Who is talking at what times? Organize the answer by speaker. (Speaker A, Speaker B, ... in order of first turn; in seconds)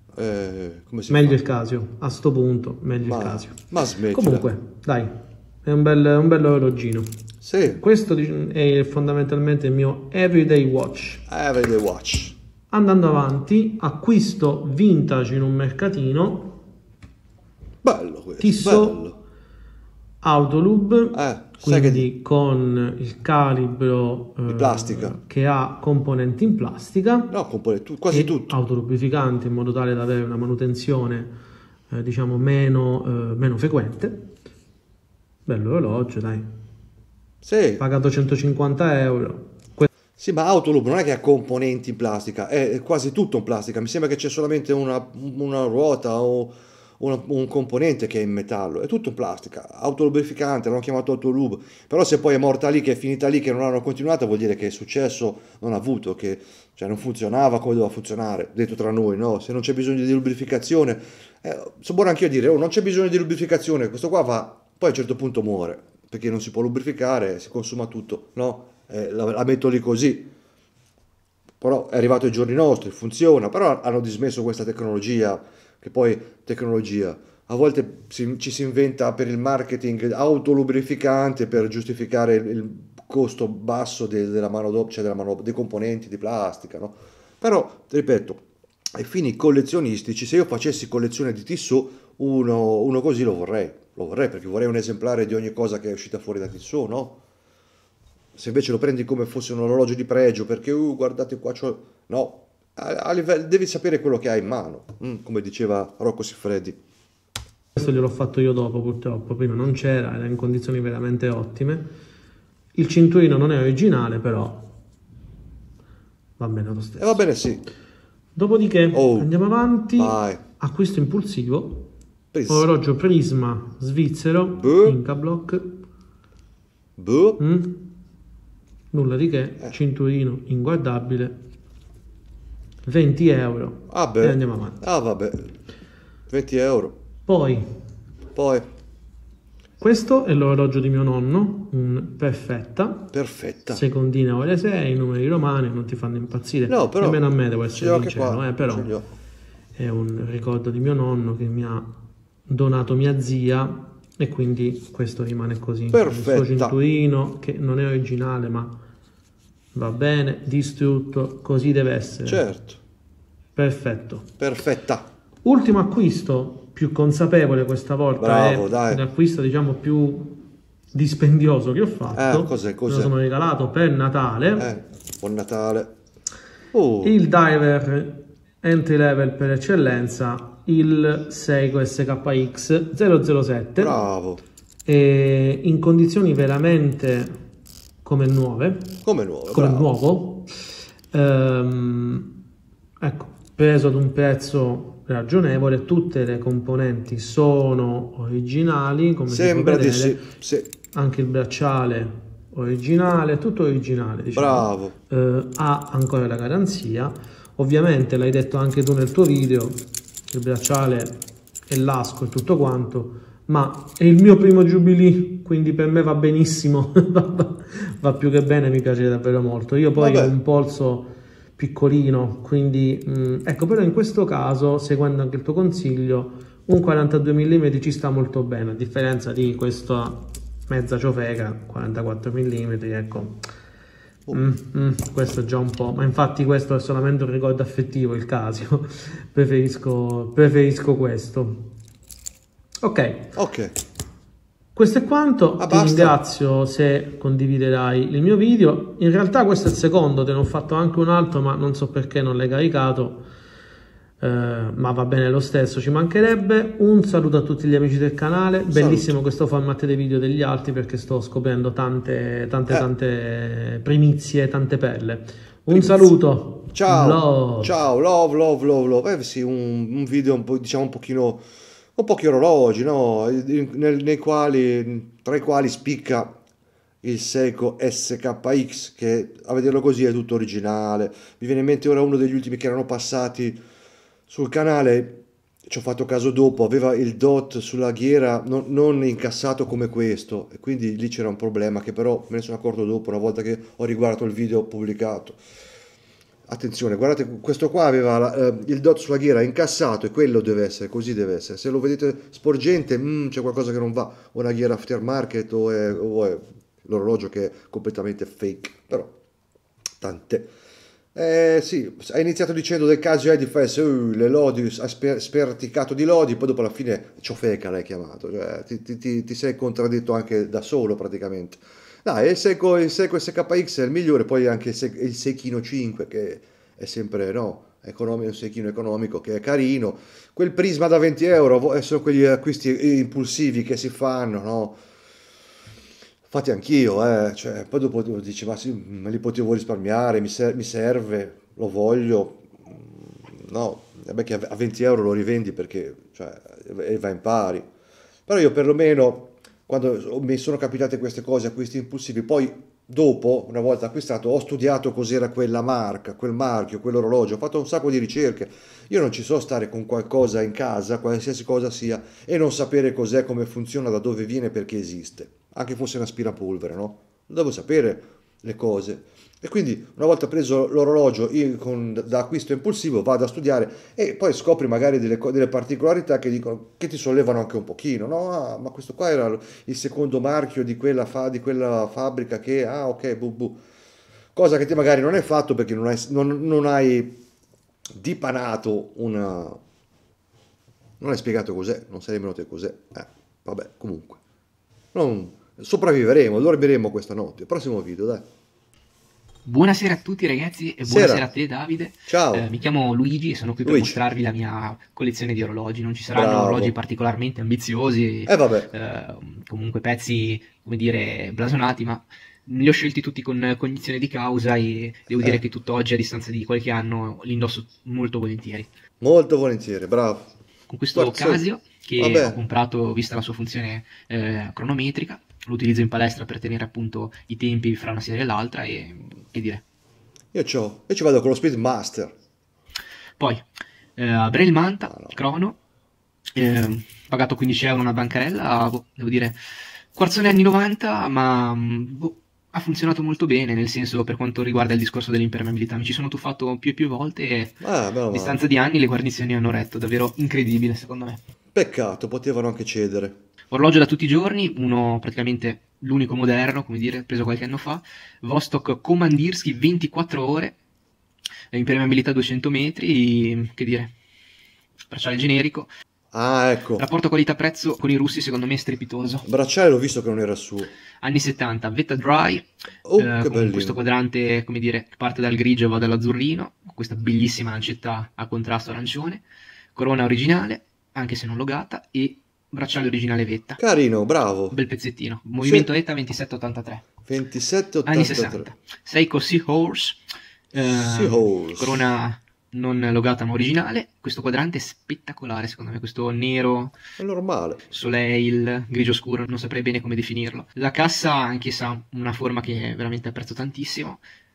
Speaker A: 0.1-1.4, 3.1-4.5, 7.4-7.8, 11.3-12.4, 17.8-19.2, 21.1-22.1, 24.4-25.2, 27.3-28.6, 37.4-37.8, 40.2-70.3, 71.6-88.4, 88.9-97.2, 98.4-106.8, 117.0-117.7, 118.9-119.3, 119.9-120.4, 122.3-122.7, 124.5-125.0, 127.0-127.4, 133.9-135.5, 136.3-137.0, 138.3-138.7, 143.1-143.8, 146.7-149.1, 155.9-156.8, 162.2-162.8, 164.4-165.1, 168.2-169.0, 172.1-173.1, 174.6-175.9, 176.7-177.2, 183.8-184.4, 189.0-189.9, 199.3-200.7, 204.3-204.9, 220.0-220.3, 243.3-243.7, 245.6-246.2, 258.7-259.1, 265.7-266.1, 266.7-276.4, 277.0-283.6, 284.3-295.4, 296.5-309.1, 310.0-310.5, 311.1-334.8, 336.3-347.7, 348.3-383.6, 384.4-387.2, 387.9-389.6, 391.0-394.2, 394.9-398.3, 400.9-401.2, 402.1-402.5, 403.6-404.0, 406.1-406.8, 408.2-408.7, 419.0-420.3, 420.9-421.4, 422.0-422.4, 430.3-432.1, 434.9-435.1, 447.6-448.4, 451.5-453.2, 466.1-466.9, 469.2-470.7, 472.9-473.8, 483.6-484.6, 485.4-485.7, 487.1-488.5, 490.6-491.9, 497.0-497.7
Speaker B: 1.1-11.3, 12.7-16.6, 18.4-19.1, 20.2-27.3, 28.1-31.4, 31.9-34.3, 35.5-36.6, 37.8-39.9, 107.8-111.9, 112.8-114.8, 116.4-117.2, 118.3-121.9, 122.5-125.8, 127.4-128.0, 128.9-131.5, 132.8-134.9, 137.2-137.8, 139.8-143.1, 143.7-148.9, 149.8-158.8, 159.7-162.4, 163.6-164.4, 165.4-174.7, 177.0-184.0, 184.9-187.4, 188.0-190.5, 191.1-192.4, 193.0-200.3, 200.9-233.5, 234.3-241.8, 242.8-243.4, 244.8-253.3, 254.2-267.7
Speaker C: 399.5-418.7, 420.7-429.6, 433.2-433.4, 434.0-435.6, 436.4-439.4, 439.9-451.2, 453.5-460.6, 461.5-463.9, 464.9-465.7, 466.8-469.2, 471.0-479.2, 479.8-483.6, 484.5-486.9, 487.9-490.0, 490.5-496.8, 497.7-504.0